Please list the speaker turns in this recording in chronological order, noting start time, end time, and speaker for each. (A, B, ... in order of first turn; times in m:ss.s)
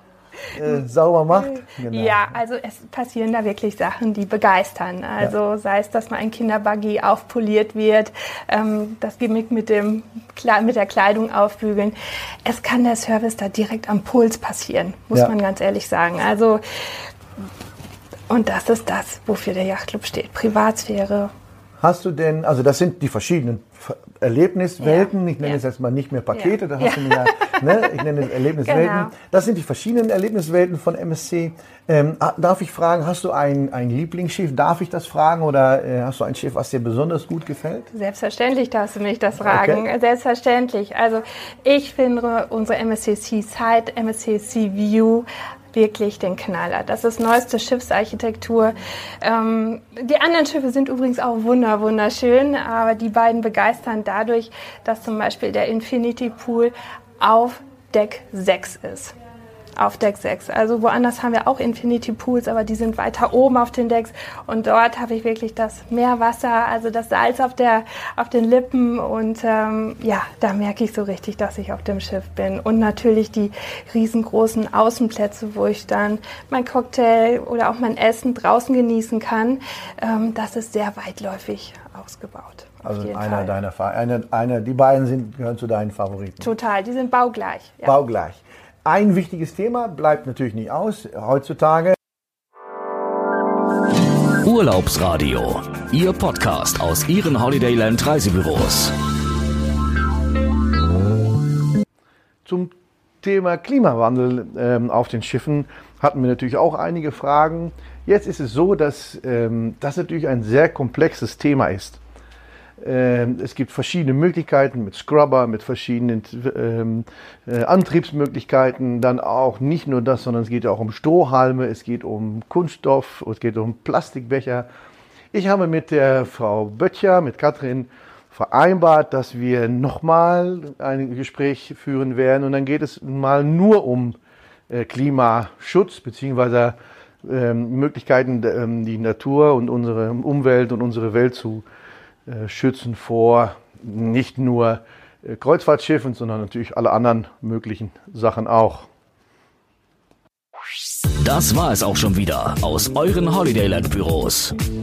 0:00.5-0:02.4 A
0:01.3-0:16.6 B
0:18.3-0:21.3 B
0:21.8-0:37.9 A
0:24.8-0:25.6 B
0:26.3-0:28.0 B
0:28.6-0:29.1 B
0:37.9-0:59.1 B
0:39.4-0:39.8 A
0:59.8-1:23.5 B
1:22.8-1:26.5 A
1:26.4-1:28.0 B
1:27.8-1:32.0 A
1:34.4-1:38.9 C
1:42.4-1:52.0 A
1:52.8-2:04.7 A
2:05.3-2:14.2 A
2:14.7-2:21.6 A
2:22.3-2:28.9 A
2:31.2-2:34.5 C